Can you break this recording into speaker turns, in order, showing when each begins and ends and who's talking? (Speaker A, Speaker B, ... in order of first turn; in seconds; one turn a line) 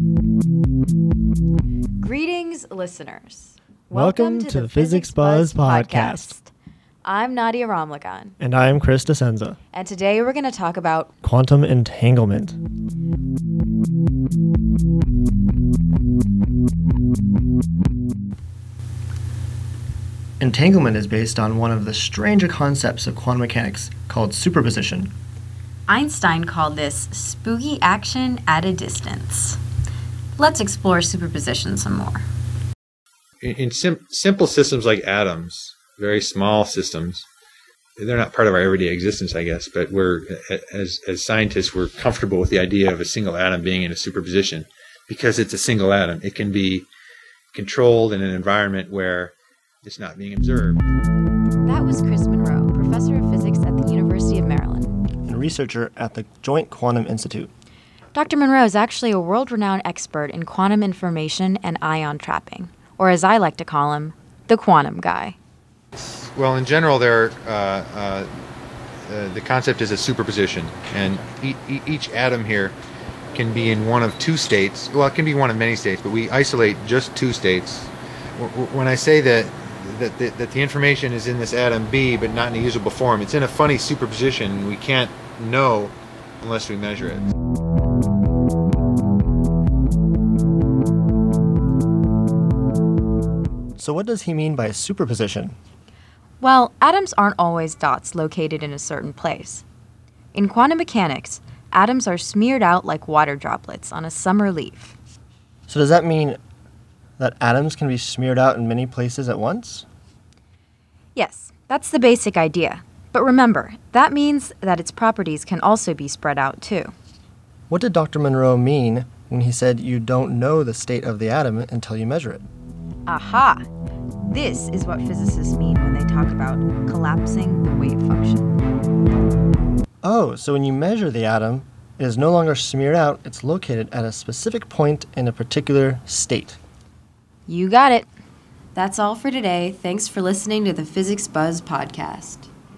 Speaker A: 2.0-6.5
Speaker B: 3.9-6.3
Speaker A: 7.0-8.3
Speaker B: 8.4-9.6
Speaker A: 9.7-11.1
Speaker B: 11.2-12.6
Speaker B: 20.4-25.1
Speaker A: 25.9-29.6
Speaker A: 30.4-32.2
Speaker C: 33.4-37.2
Speaker C: 38.0-46.9
Speaker C: 47.5-49.3
Speaker C: 49.8-50.8
Speaker A: 51.6-54.9
Speaker B: 55.2-57.5
Speaker A: 58.1-65.3
Speaker C: 65.9-68.3
Speaker C: 69.1-72.7
Speaker C: 73.3-87.3
Speaker B: 93.8-95.6
Speaker A: 96.4-99.6
Speaker A: 100.3-104.9
Speaker B: 105.7-106.4
Speaker B: 107.2-109.8
Speaker A: 111.1-116.9
Speaker B: 117.7-122.5
Speaker A: 123.1-123.7
Speaker A: 124.2-128.6
Speaker B: 130.0-136.6
Speaker A: 137.5-138.1
Speaker A: 138.7-142.5